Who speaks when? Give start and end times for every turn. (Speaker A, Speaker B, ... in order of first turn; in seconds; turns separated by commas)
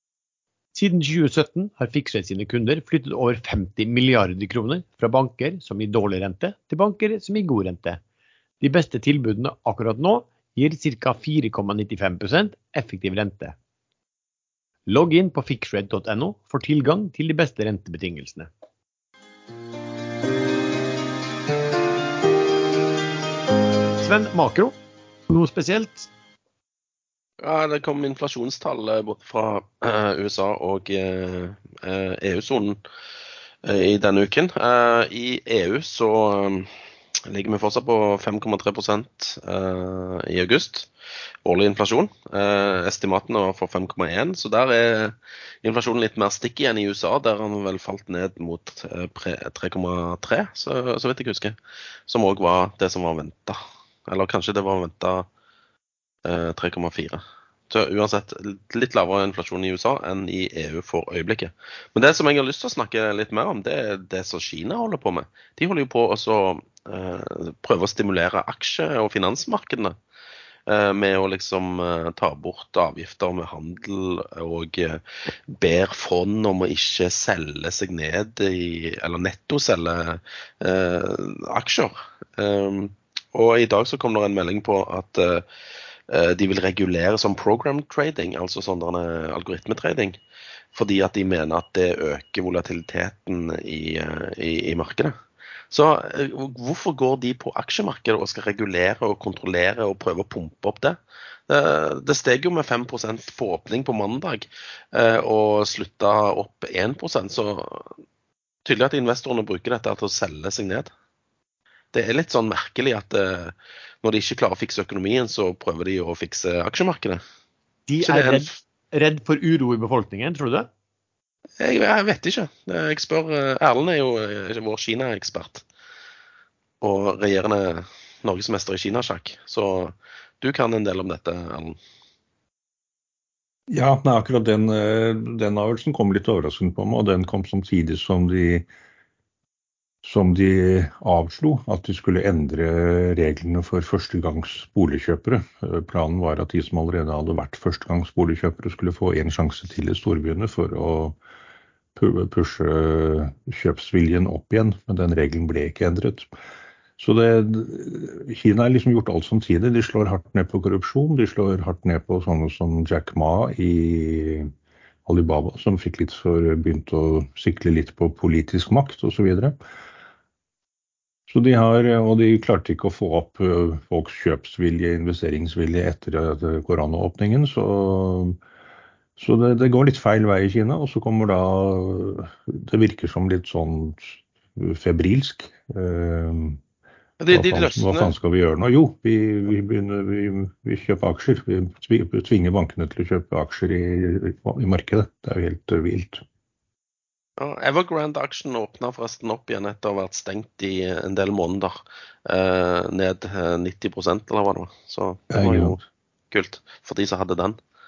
Speaker A: 0.7-8.0, Speaker A: 8.6-13.6, Speaker A: 14.9-18.5, Speaker A: 24.0-24.7, Speaker A: 25.3-26.1, Speaker B: 27.4-32.8, Speaker B: 33.6-36.7, Speaker B: 37.3-40.9, Speaker B: 41.4-51.5, Speaker B: 52.1-55.3, Speaker B: 56.2-70.0, Speaker B: 70.7-85.4, Speaker B: 86.1-90.2, Speaker B: 90.7-95.1, Speaker B: 95.7-107.9, Speaker B: 108.6-110.9, Speaker B: 111.9-117.2, Speaker A: 117.9-120.7, Speaker B: 118.0-118.5, Speaker B: 121.6-125.6, Speaker B: 126.8-131.8, Speaker C: 133.7-138.7, Speaker C: 140.0-151.2, Speaker C: 151.9-156.3, Speaker C: 157.0-164.5, Speaker C: 165.1-169.6, Speaker C: 171.3-178.4, Speaker C: 179.2-186.6, Speaker B: 187.2-188.1, Speaker C: 187.3-196.2, Speaker B: 197.4-205.8, Speaker C: 205.3-205.8, Speaker B: 206.3-207.6